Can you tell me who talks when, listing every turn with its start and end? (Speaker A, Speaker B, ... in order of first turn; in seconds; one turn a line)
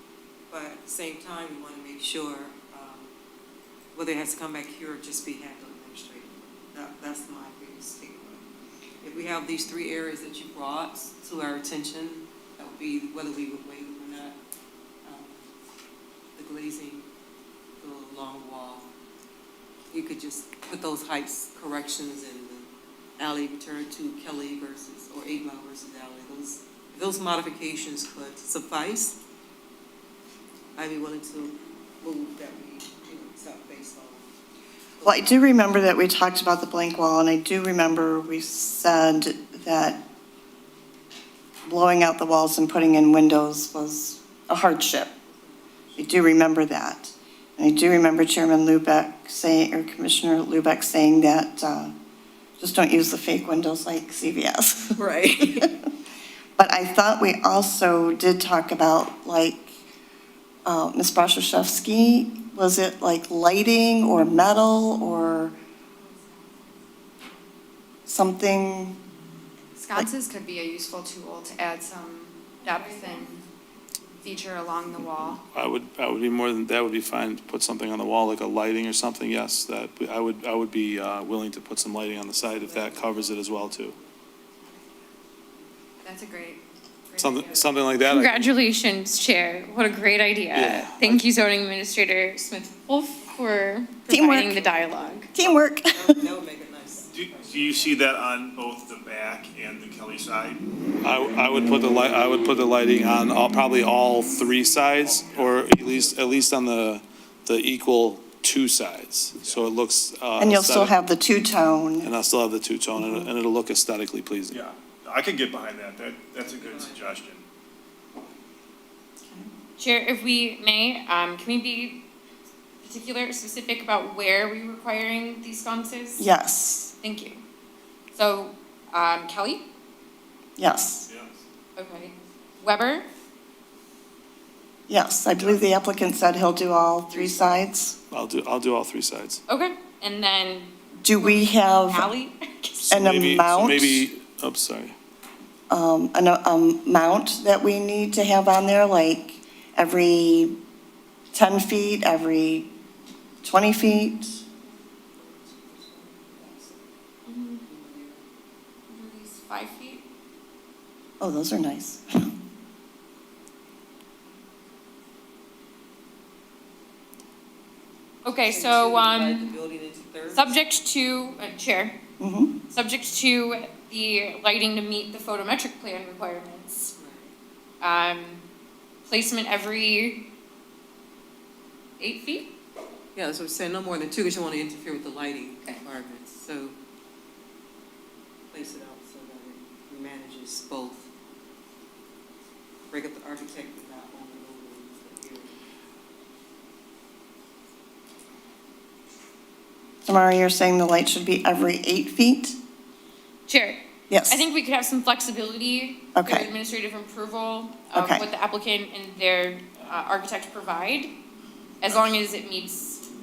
Speaker A: 0.5-3.1
Speaker A: 3.9-8.4
Speaker A: 9.0-14.4
Speaker A: 15.1-15.4
Speaker A: 16.4-17.1
Speaker A: 17.8-18.9
Speaker A: 19.9-29.2
Speaker A: 30.8-34.3
Speaker A: 35.0-35.4
Speaker B: 35.0-40.0
Speaker B: 41.7-45.1
Speaker A: 45.2-46.3
Speaker B: 46.0-51.9
Speaker B: 52.6-55.0
Speaker A: 55.0-55.7
Speaker B: 56.6-59.8
Speaker B: 60.6-65.5
Speaker B: 68.1-69.0
Speaker C: 69.8-73.4
Speaker A: 72.7-73.2
Speaker C: 74.2-75.4
Speaker D: 75.5-84.0
Speaker A: 82.4-84.1
Speaker C: 86.0-87.7
Speaker D: 87.2-88.5
Speaker E: 88.1-95.3
Speaker D: 90.5-91.2
Speaker B: 94.1-94.6
Speaker A: 94.5-98.3
Speaker B: 95.3-96.2
Speaker F: 97.1-100.6
Speaker D: 101.0-111.0
Speaker F: 105.2-105.6
Speaker A: 105.9-106.4
Speaker B: 110.4-112.1
Speaker D: 112.0-114.6
Speaker B: 113.0-113.3
Speaker F: 114.5-117.4
Speaker A: 116.4-117.1
Speaker E: 119.8-122.0
Speaker E: 122.8-126.3
Speaker B: 126.2-126.9
Speaker E: 127.0-127.4
Speaker E: 128.1-129.6
Speaker B: 130.6-131.1
Speaker F: 131.1-131.4
Speaker E: 131.8-133.1
Speaker B: 134.9-138.0
Speaker A: 137.1-137.7
Speaker D: 138.1-139.4
Speaker E: 139.5-142.8
Speaker B: 141.0-142.1
Speaker D: 142.9-144.9
Speaker B: 142.9-144.1
Speaker B: 145.7-150.6
Speaker B: 151.3-152.7
Speaker B: 153.4-154.4
Speaker A: 154.7-156.9
Speaker E: 157.3-157.6
Speaker A: 157.6-158.2
Speaker E: 158.9-160.0
Speaker B: 161.2-162.3
Speaker E: 168.2-169.5
Speaker A: 168.4-170.6
Speaker E: 170.3-172.0
Speaker B: 172.2-172.6
Speaker E: 172.7-176.9
Speaker A: 177.0-177.3
Speaker E: 177.8-178.4
Speaker E: 179.1-180.2
Speaker E: 182.0-182.5
Speaker A: 183.1-186.8
Speaker A: 188.5-191.1
Speaker A: 192.9-195.6
Speaker B: 200.1-202.6
Speaker E: 203.5-211.1
Speaker B: 204.1-204.4
Speaker B: 206.2-206.5
Speaker B: 207.9-208.2
Speaker E: 211.8-213.0